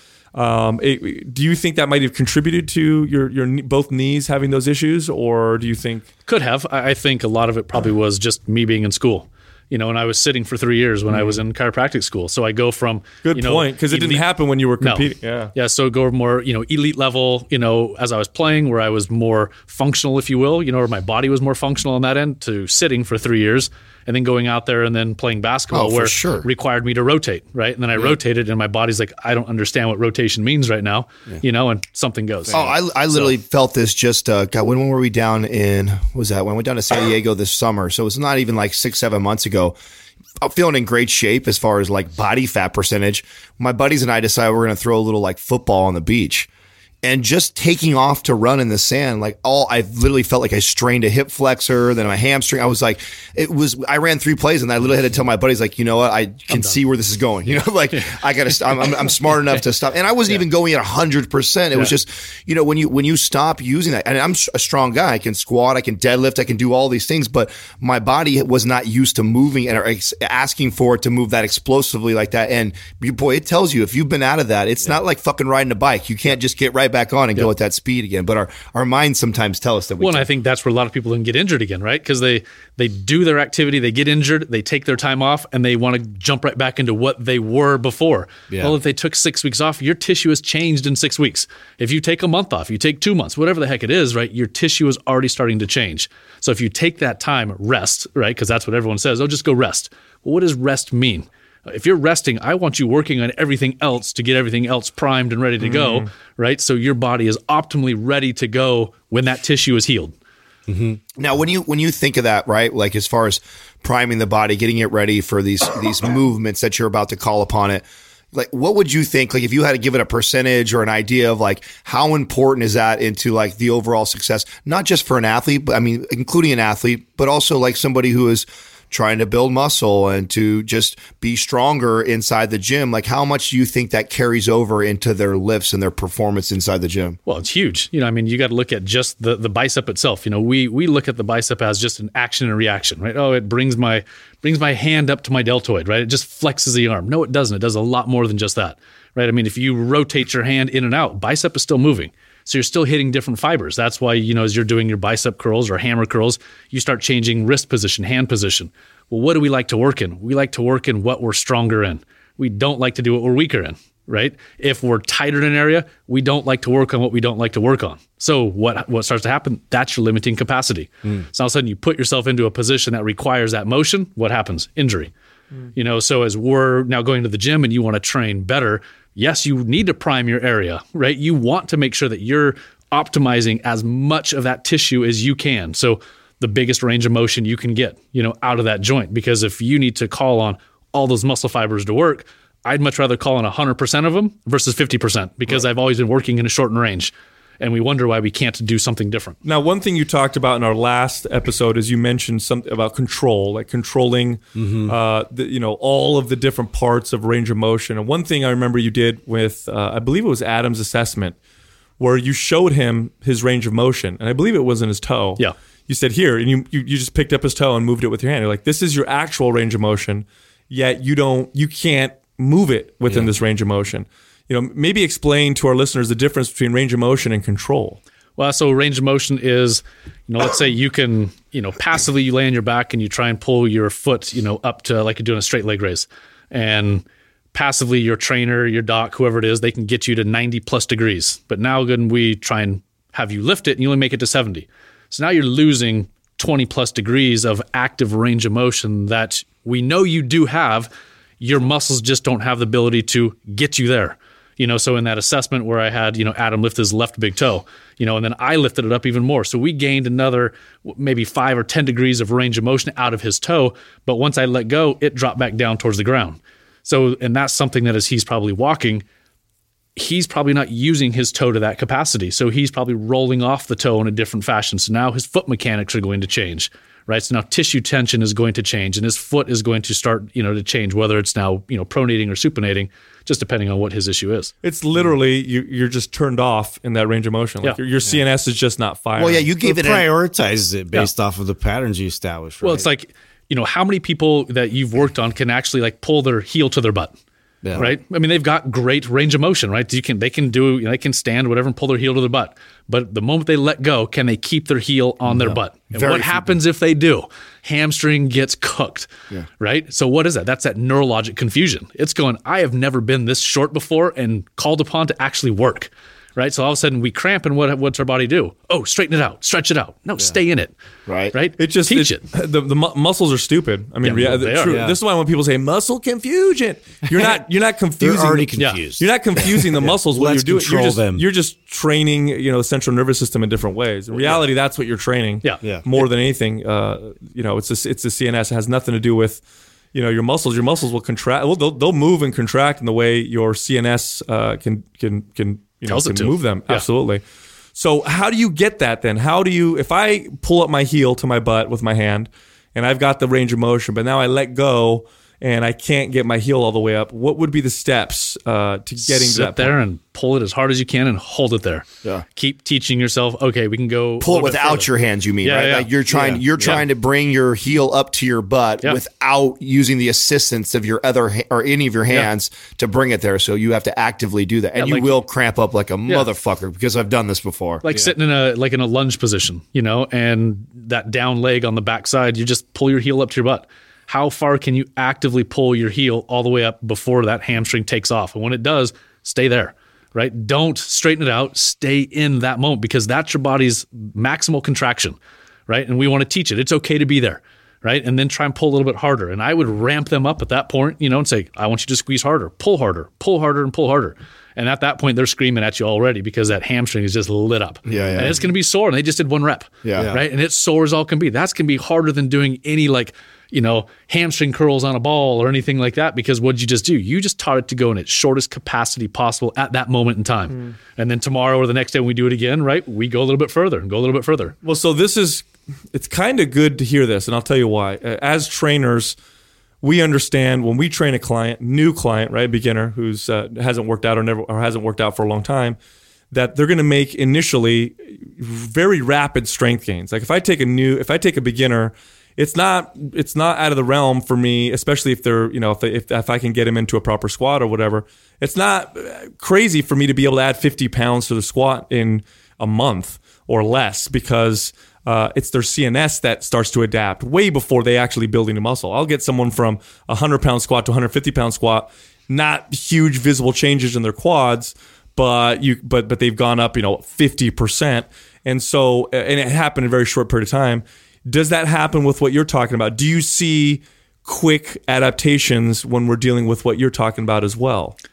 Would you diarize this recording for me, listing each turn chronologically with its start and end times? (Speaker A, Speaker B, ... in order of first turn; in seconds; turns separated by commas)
Speaker A: 0.3-6.1, Speaker B: 6.3-14.2, Speaker A: 13.2-15.5, Speaker B: 14.8-33.3, Speaker C: 25.7-26.5, Speaker D: 32.5-32.8, Speaker C: 32.5-39.7, Speaker C: 40.4-46.5, Speaker C: 47.0-80.3, Speaker B: 56.5-56.8, Speaker B: 57.9-58.2, Speaker B: 80.0-110.1, Speaker D: 88.5-88.8, Speaker A: 105.6-106.1, Speaker D: 110.7-111.0, Speaker C: 111.2-137.2, Speaker B: 137.2-175.1, Speaker B: 175.7-199.4, Speaker A: 199.4-211.3, Speaker D: 204.6-204.9, Speaker A: 212.0-228.0, Speaker B: 228.4-250.9, Speaker B: 251.4-269.0, Speaker B: 269.9-284.5, Speaker A: 284.6-289.5, Speaker C: 289.2-290.1, Speaker D: 289.6-292.9, Speaker B: 292.6-297.1, Speaker D: 297.6-297.9, Speaker B: 297.7-320.7, Speaker C: 305.9-306.5, Speaker C: 321.1-321.3, Speaker B: 321.3-322.2, Speaker A: 321.6-339.4, Speaker B: 324.0-324.8, Speaker D: 324.6-325.0, Speaker D: 328.0-331.2, Speaker B: 335.4-336.0, Speaker A: 339.9-347.2, Speaker B: 345.9-346.9, Speaker A: 347.7-359.7, Speaker B: 359.0-364.9, Speaker C: 364.2-377.8, Speaker B: 365.4-366.8, Speaker B: 374.8-375.2, Speaker B: 377.8-395.2, Speaker B: 395.7-424.6, Speaker C: 407.9-408.4, Speaker D: 407.9-408.2, Speaker C: 409.8-410.1, Speaker A: 424.6-429.1, Speaker A: 429.8-435.8, Speaker A: 436.3-477.9